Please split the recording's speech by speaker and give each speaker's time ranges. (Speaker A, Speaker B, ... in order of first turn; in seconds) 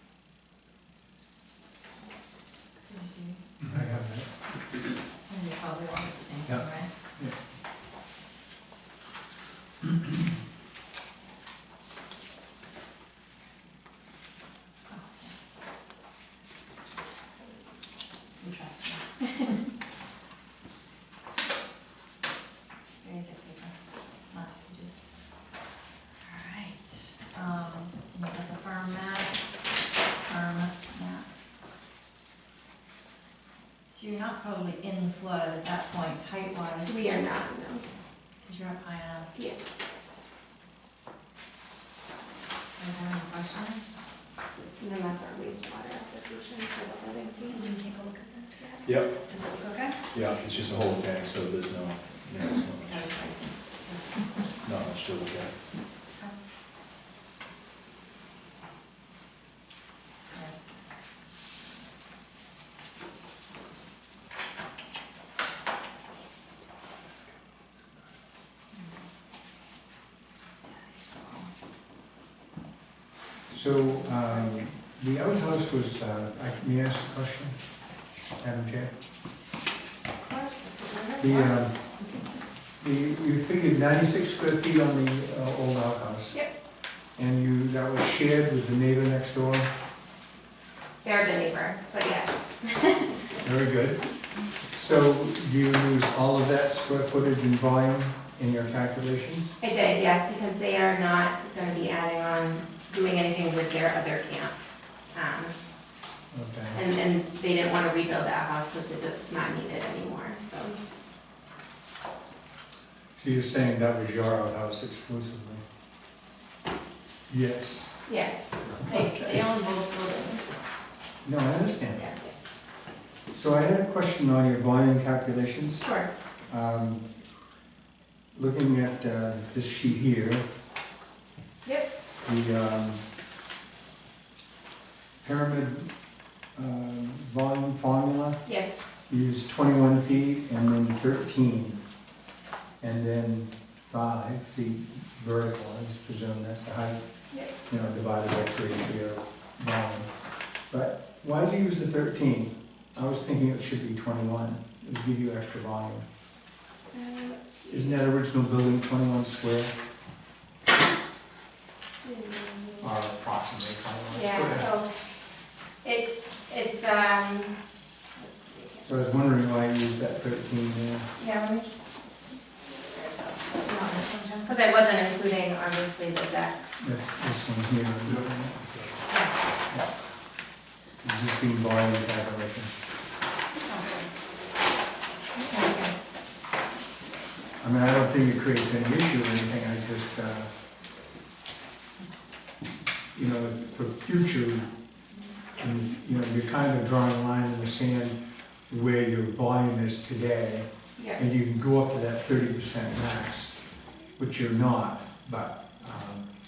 Speaker A: 2.9-3.5, 5.3-6.9, 14.9-15.3, 18.4-19.2, 22.9-25.0, 26.2-29.4, 30.2-31.3, 33.9-37.1, 38.4-39.3, 42.8-44.1, 47.5-50.0, 52.8-54.2, 71.0-71.5, 118.9-120.6, 173.6-174.5, 183.6-184.1, 185.5-185.9
Speaker B: 3.6-4.3, 6.5-7.4, 73.5-77.5, 78.4-78.9, 81.2-81.8, 82.8-86.4, 87.2-89.7, 93.4-94.0, 94.7-99.5, 106.3-106.8, 113.2-115.6, 117.3-118.0, 118.9-119.3, 121.2-122.1, 123.3-125.9, 126.5-127.0, 128.3-130.4, 132.2-133.0, 135.2-135.9, 136.6-138.4, 139.1-141.8, 142.8-147.0, 147.7-150.1, 150.7-156.1, 157.7-159.8, 162.8-164.7, 168.8-171.1, 176.8-178.7, 181.0-182.7, 187.6-190.5, 193.2-194.7, 195.6-203.6, 204.2-206.3
Speaker C: 36.9-37.9, 44.8-47.7, 80.2-81.6, 91.0-93.1, 99.6-104.5, 105.1-105.5, 106.7-110.8, 118.1-118.6, 125.8-126.1, 131.7-131.9, 138.4-138.9, 156.9-158.0, 161.8-162.9, 164.1-164.9, 165.8-167.6, 168.2-168.9, 171.2-176.7, 185.4-185.7
Speaker D: 48.9-49.6, 50.1-53.2, 54.6-55.6